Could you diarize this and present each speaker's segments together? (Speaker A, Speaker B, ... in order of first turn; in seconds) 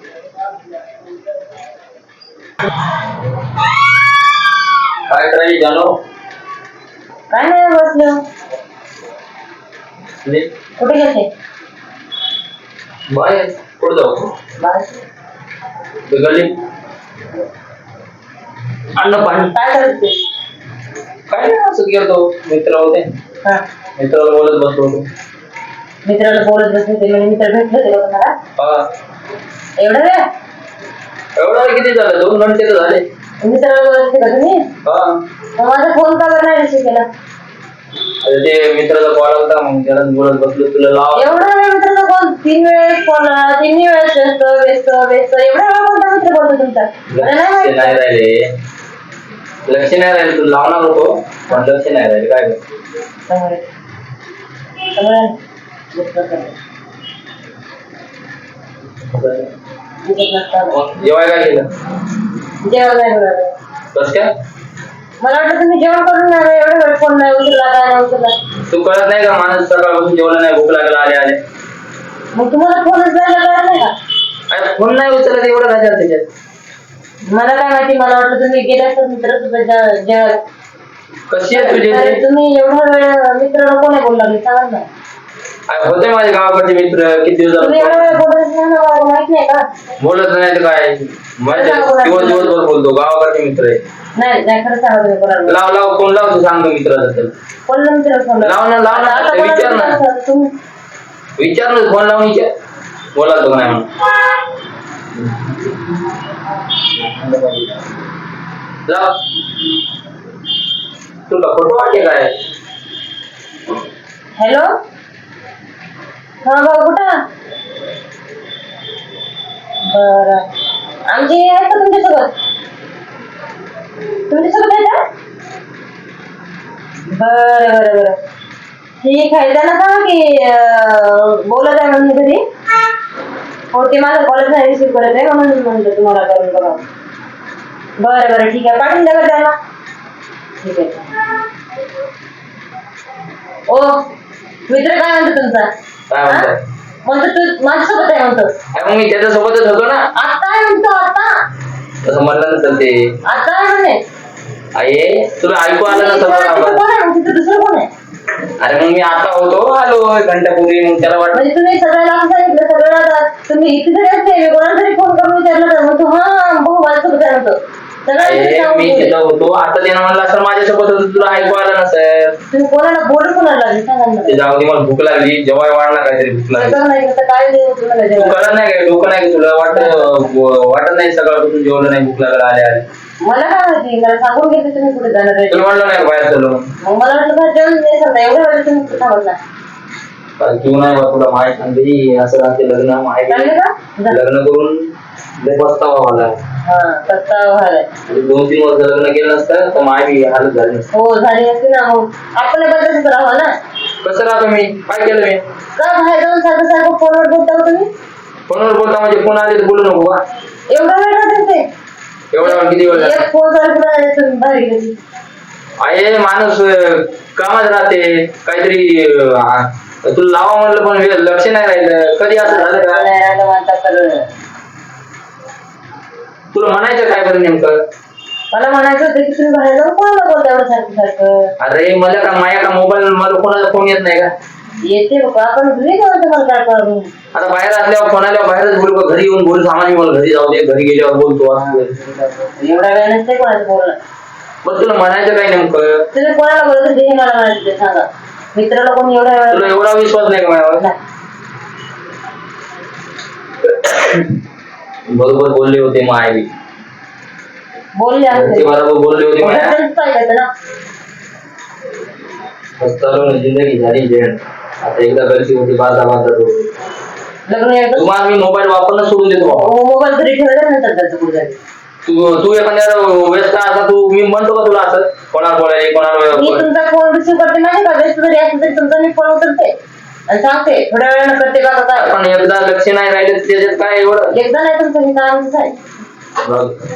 Speaker A: 5.1-6.0, 10.2-10.5, 13.1-14.3, 16.0-16.6, 18.9-19.5, 21.3-23.1, 23.9-25.1, 28.6-28.8, 31.4-33.0, 34.8-35.2, 38.2-41.3, 47.1-48.5, 49.6-52.6, 59.1-59.5, 60.7-61.7, 63.9-64.3, 68.7-71.4, 74.5-76.2, 81.3-82.2, 85.7-88.1, 90.0-93.8, 95.5-97.3, 98.4-100.0, 101.4-102.5, 103.1-103.9, 105.2-105.7, 106.9-107.9, 108.8-109.2, 111.3-112.3, 146.1-146.6, 148.7-150.1, 152.0-153.1, 154.7-156.8, 158.6-161.4, 168.2-172.3, 174.2-176.8, 178.1-182.9, 185.5-186.7, 190.4-193.5, 194.1-196.4, 198.1-200.9, 204.0-205.4, 208.5-210.2, 212.3-213.2, 215.8-223.1, 226.5-227.8, 231.6-234.3, 237.3-241.9, 244.6-246.1, 249.5-250.9, 255.1-256.5, 258.3-259.7, 262.8-266.7, 267.9-269.7, 272.0-276.7, 281.9-284.3, 286.4-286.8
Speaker B: 7.3-8.2, 10.8-11.3, 14.6-14.9, 19.5-20.2, 26.0-28.3, 29.8-30.2, 33.4-34.7, 35.5-37.1, 41.1-48.0, 53.3-53.6, 54.9-55.4, 55.9-56.5, 60.0-60.8, 62.6-63.5, 65.2-68.3, 72.3-73.9, 77.3-80.4, 81.5-84.8, 87.6-89.7, 91.5-92.5, 94.2-95.6, 97.7-100.5, 114.4-114.7, 116.4-117.2, 119.8-120.4, 121.1-122.4, 124.3-125.0, 127.1-128.2, 129.0-132.4, 133.7-136.8, 138.0-139.6, 140.6-141.1, 143.7-144.1, 144.7-145.7, 147.0-148.5, 150.1-151.4, 153.2-154.0, 155.8-157.9, 161.3-169.1, 172.5-174.4, 176.5-178.5, 179.7-180.2, 183.2-185.6, 186.8-189.4, 193.3-194.2, 196.6-197.9, 200.9-203.5, 205.8-207.9, 210.7-211.7, 212.4-214.9, 222.4-224.2, 228.5-231.5, 234.8-237.1, 241.7-244.0, 246.1-249.8, 257.9-258.7, 259.4-260.5, 267.5-268.1, 269.4-271.6, 276.3-279.7, 280.3-282.1, 284.3-285.8